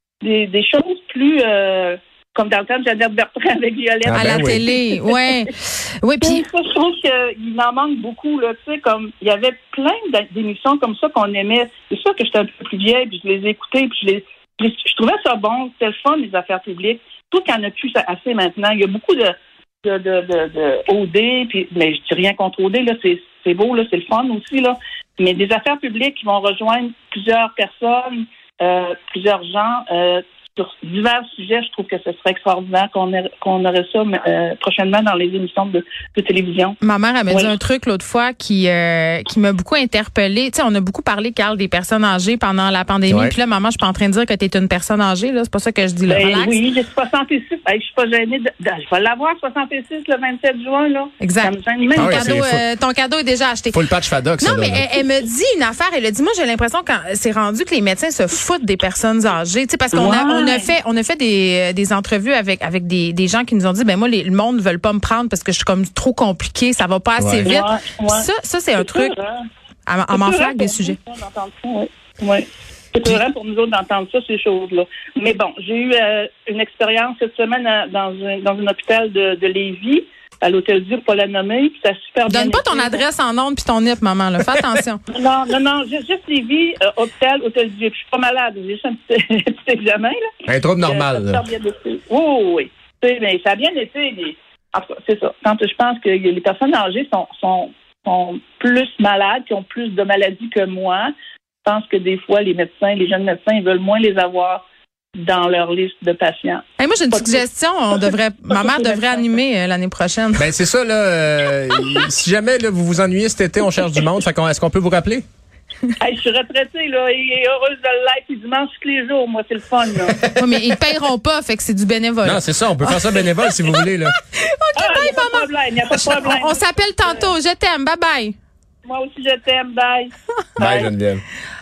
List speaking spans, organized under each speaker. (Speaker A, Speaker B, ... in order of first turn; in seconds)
Speaker A: 0.2-5.4, 6.2-36.8, 46.1-52.4, 59.9-60.7, 67.5-68.3, 68.8-69.4, 70.1-83.0, 85.1-90.3, 90.8-101.1, 101.7-104.7, 105.2-107.4, 108.5-109.2, 116.0-120.2, 124.8-127.3, 128.9-130.9
Speaker B: 4.0-4.6, 43.1-43.4, 52.0-52.6, 53.7-54.9, 67.2-67.5, 90.5-91.4, 110.4-115.2, 122.2-124.2, 130.6-131.2
Speaker C: 4.2-6.4, 36.8-46.6, 51.2-53.8, 54.4-69.1, 69.9-71.0, 82.3-85.0, 106.8-110.5, 120.4-128.4